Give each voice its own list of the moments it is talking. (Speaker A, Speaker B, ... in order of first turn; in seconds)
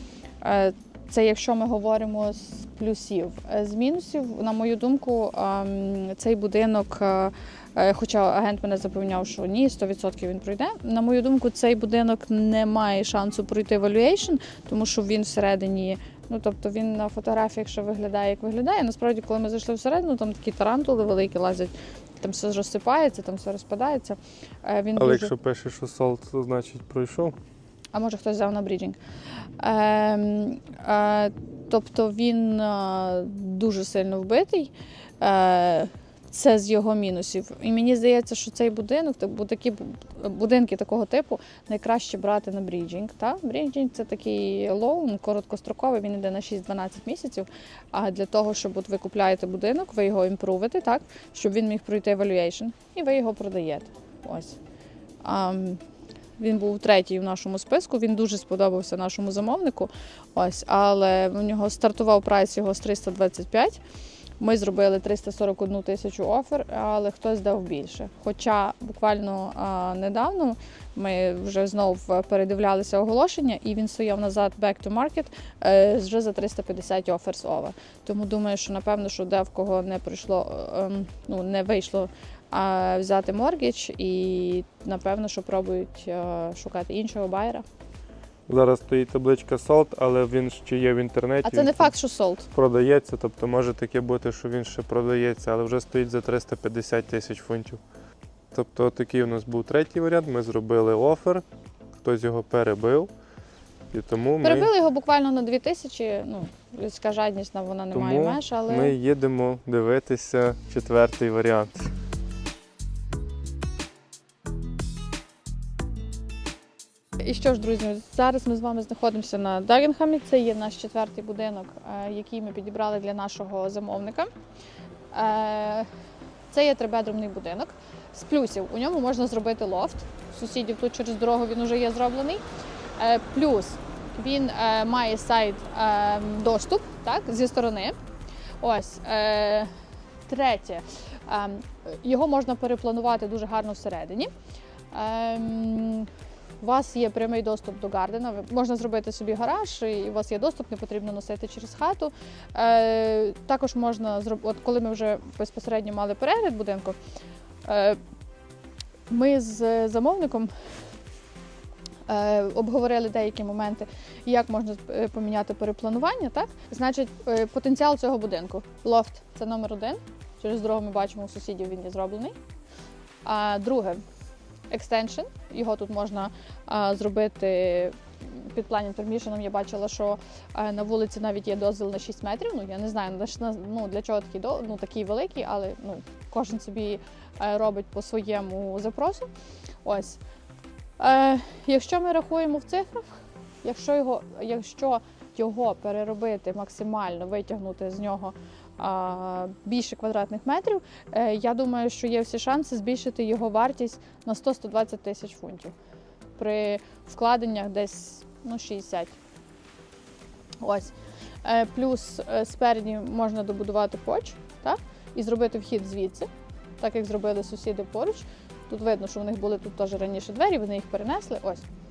Speaker A: 0.4-25.3, 27.9-29.0, 29.6-54.6, 55.2-55.8, 56.4-63.8, 64.4-87.6, 91.4-92.5, 104.4-108.9, 117.2-124.3, 125.1-125.9, 126.5-132.4, 133.0-137.9, 138.6-139.7, 140.3-144.3, 144.9-146.1, 146.6-156.9, 157.6-158.0, 159.1-160.5, 162.1-172.3, 173.2-174.0, 174.7-189.3, 189.8-190.2, 191.0-193.0, 193.6-205.7, 206.4-209.2, 210.6-216.3, 216.8-221.6
Speaker B: 25.0-27.3, 88.5-91.9, 92.5-97.8, 98.5-101.4, 102.0-103.1, 103.9-104.7, 107.9-111.9